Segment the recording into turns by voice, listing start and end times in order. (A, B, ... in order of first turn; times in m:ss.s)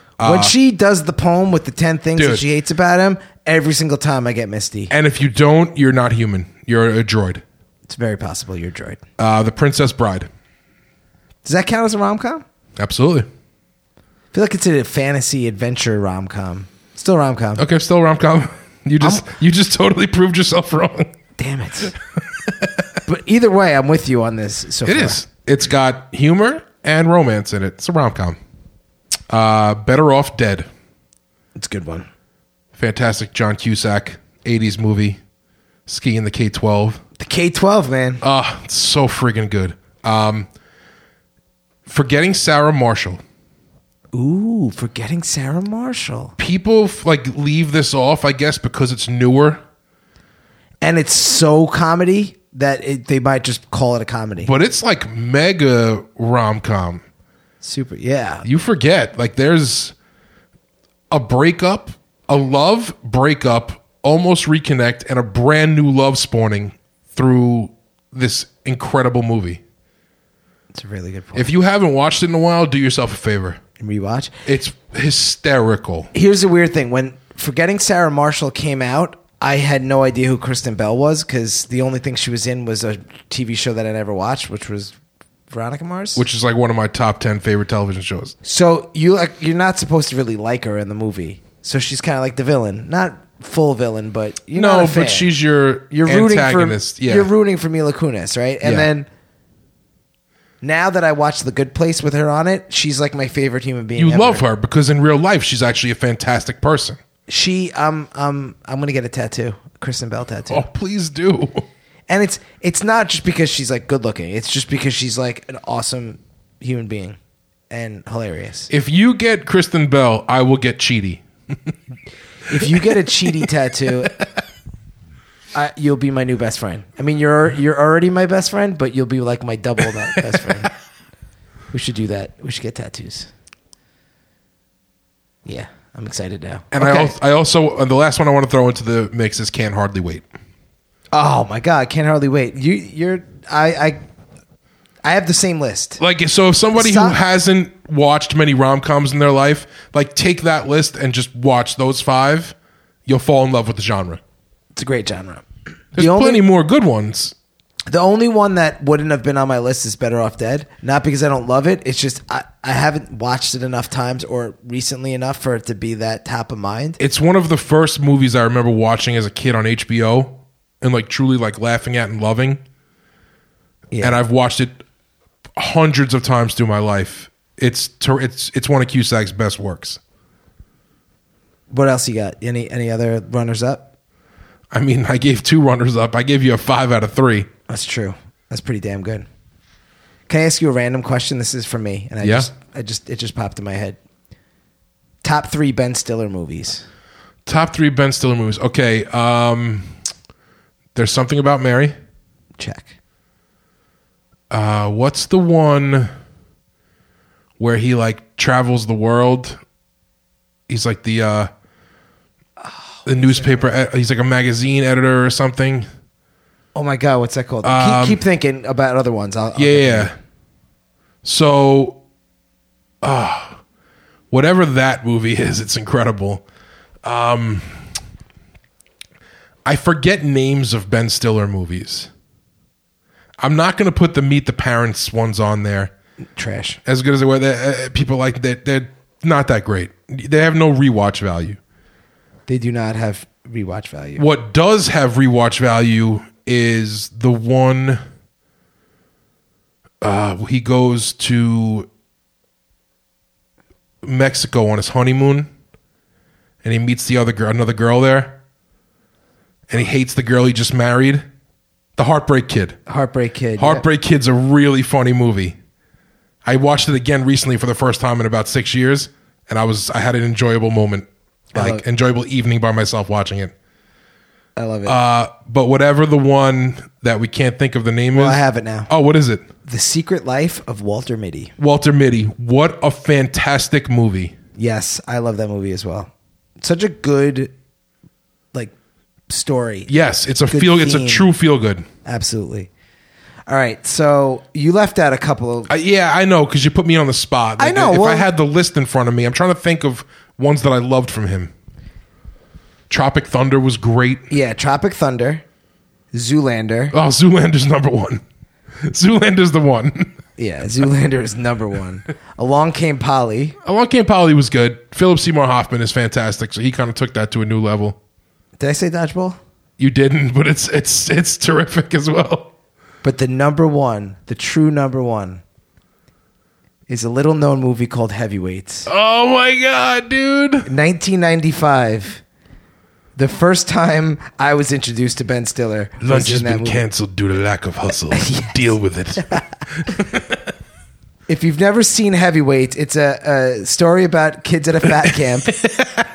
0:00.2-0:00.5 A
0:00.2-0:04.9 B
0:02.2-0:02.4 A
0:04.9-0:07.4 A
0:07.9-0:09.0 B
0:09.2-0:10.3 A
0:11.4-0:12.4 B
0:12.8-0:13.3 A
0:14.3-0:17.6 B
0:17.6-0:21.1 A
0:21.4-0:22.0 B
0:22.5-0:22.7 A
0:23.0-0:25.2 B
0:24.8-0:28.4 A
0:29.3-0:30.7 A
0:31.6-0:32.1 B
0:32.7-0:35.2 A
0:35.9-0:37.0 A
0:37.2-0:38.2 B
0:38.2-0:40.5 A
0:41.8-0:43.2 A
0:44.1-0:46.3 B
0:46.4-0:49.6 A
0:50.8-0:54.5 B
0:54.4-0:57.0 A
0:57.6-0:58.4 B
0:58.4-0:59.9 A
1:01.1-1:09.6 A
1:10.7-1:11.5 B
1:11.3-1:13.6 A
1:13.8-1:14.3 B
1:14.4-1:16.1 A
1:16.1-1:24.9 B
1:25.5-1:26.2 B
1:26.1-1:28.3 A
1:28.4-1:35.3 B
1:34.5-1:37.3 A
1:35.9-1:39.1 B
1:38.6-1:38.9 A
1:40.6-1:44.4 B
1:43.9-1:47.0 A
1:47.3-1:50.6 B
1:50.5-1:51.6 A
1:52.1-1:57.2 B
1:57.7-1:58.7 B
1:58.7-2:01.7 A
2:02.5-2:04.1 B
2:05.5-2:10.7 B
2:11.7-2:13.3 B
2:15.4-2:17.1 B
2:16.7-2:20.2 A
2:21.1-2:24.0 B
2:25.0-2:26.0 B
2:26.0-2:32.5 A
2:26.7-2:27.2 B
2:33.0-2:34.2 A
2:34.8-2:36.4 B
2:35.9-2:37.3 A
2:37.9-2:47.0 B
2:47.0-2:52.6 A
2:53.9-2:54.2 B
2:54.0-2:54.8 A
2:55.6-3:00.0 A
3:01.7-3:03.9 B
3:04.7-3:07.5 A
3:07.7-3:09.3 B
3:10.3-3:14.0 B
3:12.2-3:12.5 A
3:15.2-3:16.8 B
3:17.4-3:19.9 A
3:20.9-3:21.9 A
3:22.6-3:22.9 B
3:24.5-3:26.1 A
3:27.6-3:29.6 A
3:30.7-3:31.5 A
3:32.6-3:33.7 B
3:33.0-3:35.9 A
3:36.7-3:40.1 B
3:37.6-3:38.2 A
3:39.6-3:40.1 A
3:41.2-3:42.0 A
3:43.0-3:43.6 A
3:44.3-3:46.4 A
3:47.0-3:47.8 A
3:49.6-3:52.1 A
3:53.4-3:55.9 A
3:56.4-3:56.8 B
3:56.8-4:01.6 A
4:02.5-4:04.2 B
4:04.2-4:08.0 A
4:10.0-4:11.9 A
4:14.0-4:15.5 A
4:16.6-4:18.4 A
4:19.7-4:21.2 A
4:22.0-4:22.8 A
4:22.9-4:23.8 B
4:23.6-4:25.6 A
4:26.4-4:33.5 A
4:31.5-4:31.8 B
4:34.6-4:35.0 B
4:34.8-4:39.4 A
4:38.1-4:38.9 B
4:39.6-4:41.5 B
4:41.6-4:44.3 A
4:44.6-4:47.5 B
4:49.3-4:49.9 B
4:49.9-4:51.8 A
4:50.5-4:51.3 B
4:52.0-4:52.7 B
4:53.5-4:55.7 B
4:55.7-5:01.5 A
4:57.6-4:58.3 B
5:02.9-5:04.3 A
5:04.3-5:05.4 B
5:06.1-5:06.9 B
5:06.9-5:08.2 A
5:08.8-5:10.2 A
5:10.4-5:13.6 B
5:13.6-5:18.0 A
5:18.6-5:19.4 B
5:19.8-5:22.5 A
5:23.0-5:25.4 B
5:26.9-5:28.9 B
5:28.8-5:30.7 A
5:30.6-5:32.2 B
5:33.2-5:36.8 B
5:36.0-5:40.5 A
5:38.1-5:38.5 B
5:41.3-5:45.5 B
5:45.5-5:46.0 A